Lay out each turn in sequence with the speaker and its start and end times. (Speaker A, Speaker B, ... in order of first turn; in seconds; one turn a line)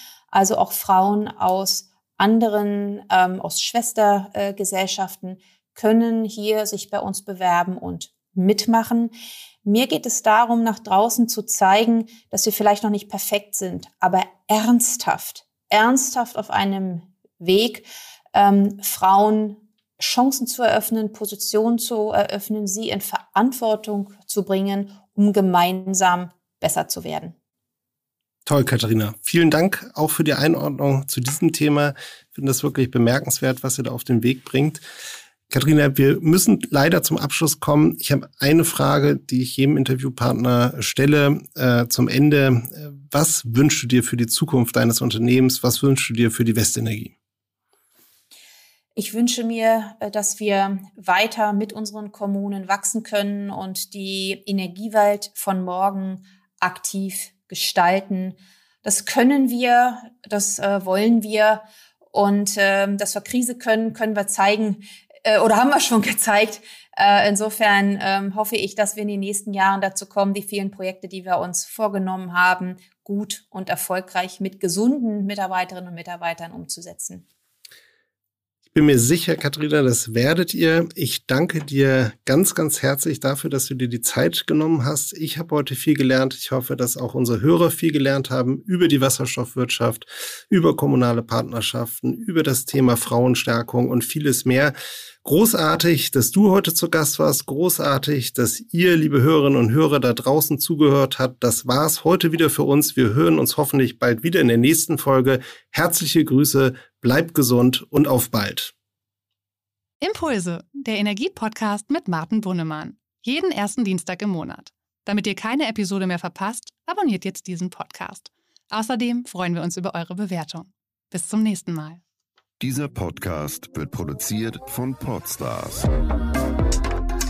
Speaker A: 0.3-9.1
Speaker A: 9.6-27.4
Speaker B: 28.5-34.8
Speaker B: 35.5-47.1
Speaker A: 49.0-77.3
Speaker B: 78.7-108.7
Speaker C: 110.0-122.0
Speaker D: 122.6-125.9